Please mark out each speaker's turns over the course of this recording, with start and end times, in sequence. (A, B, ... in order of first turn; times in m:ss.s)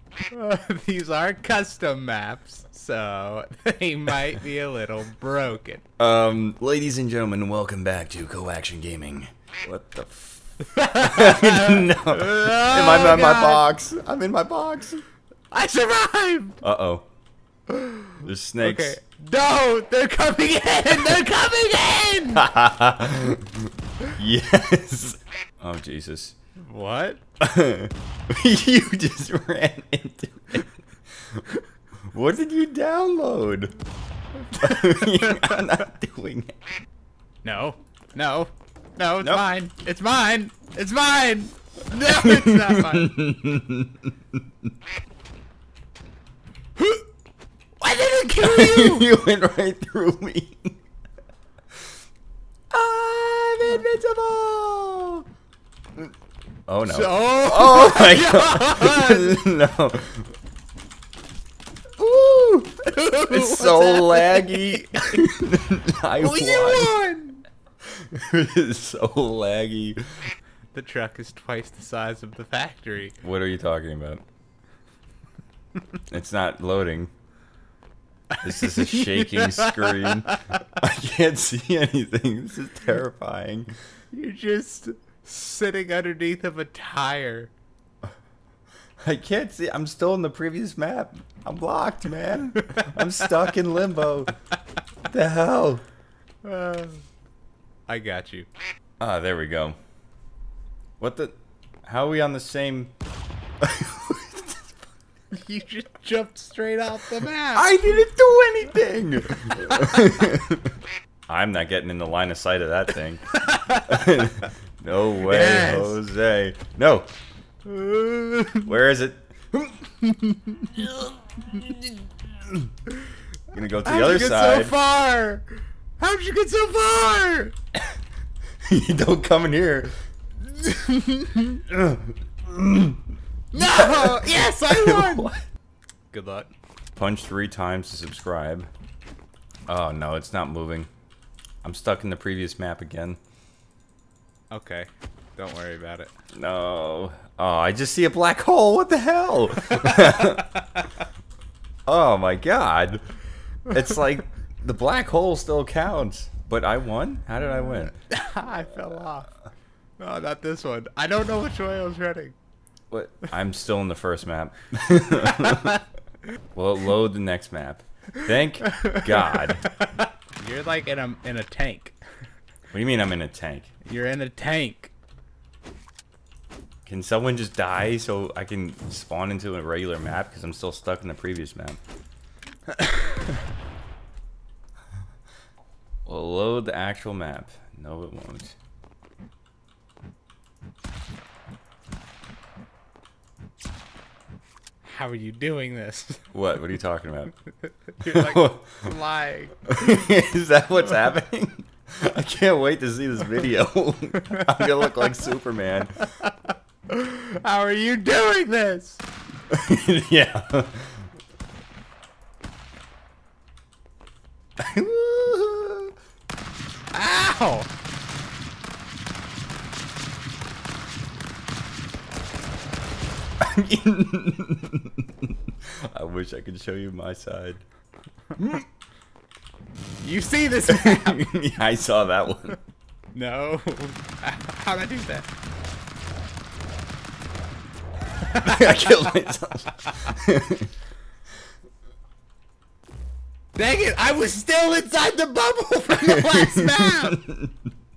0:00.3-0:05.8 A
0:06.0-0:15.0 B
0:10.8-0:13.7 A
0:15.5-0:16.6 A
0:16.6-0:17.1 B
0:17.7-0:22.5 A
0:18.2-0:19.0 B
0:22.3-0:26.4 B
0:26.6-0:27.2 A
0:27.4-0:30.7 B
0:32.1-0:33.8 B
0:34.5-0:35.8 A
0:34.5-0:36.6 B
0:37.4-0:43.2 A
0:42.2-0:44.1 B
0:46.8-0:47.1 A
0:47.8-0:49.1 A
0:48.4-0:50.8 B
0:52.7-0:55.2 B
0:56.7-1:00.3 B
0:56.9-0:59.4 A
1:02.0-1:07.0 B
1:02.9-1:05.2 A
1:06.2-1:07.4 A
1:07.9-1:10.0 B
1:10.7-1:13.2 A
1:13.2-1:14.2 B
1:16.1-1:17.1 B
1:18.3-1:20.6 A
1:18.4-1:23.7 B
1:24.1-1:27.5 A
1:29.0-1:34.4 B
1:35.1-1:35.8 B
1:36.4-1:37.0 A
1:37.9-1:38.5 A
1:39.0-1:39.8 B
1:41.0-1:42.9 B
1:43.6-1:44.7 B
1:45.3-1:47.7 A
1:47.5-1:50.7 B
1:49.8-1:50.0 A
1:51.3-1:57.1 B
1:53.4-1:54.3 A
1:55.2-1:56.0 A
1:57.6-1:58.7 A
1:58.6-1:59.8 B
2:00.1-2:01.8 A
2:03.5-2:04.8 B
2:03.8-2:07.5 A
2:08.7-2:09.9 B
2:10.7-2:11.4 A
2:11.5-2:13.0 B
2:13.5-2:15.3 A
2:13.6-2:15.5 B
2:16.1-2:16.5 A
2:17.0-2:18.7 B
2:19.7-2:20.9 B
2:21.6-2:23.2 B
2:24.5-2:26.1 A
2:26.3-2:30.6 B
2:30.1-2:30.4 A
2:31.9-2:33.0 B
2:33.7-2:38.0 B
2:38.1-2:39.3 A
2:40.0-2:42.4 A
2:42.9-2:45.8 B
2:46.5-2:49.7 B
2:48.8-2:52.0 A
2:52.7-2:53.7 B
2:53.8-2:54.9 A
2:56.9-3:01.8 B
3:02.8-3:03.2 A
3:06.1-3:08.6 B
3:14.8-3:16.2 A
3:16.3-3:17.4 B
3:18.0-3:19.5 A
3:18.0-3:18.9 B
3:19.6-3:26.0 B
3:26.9-3:29.0 A
3:29.5-3:31.0 B
3:34.6-3:35.9 B
3:36.9-3:37.7 A
3:43.4-3:47.6 B
3:50.0-3:51.3 A
3:50.7-3:52.6 B
3:53.1-3:55.3 A
3:58.2-3:59.1 A
3:58.4-4:00.7 B
4:03.6-4:07.2 A
4:06.0-4:07.5 B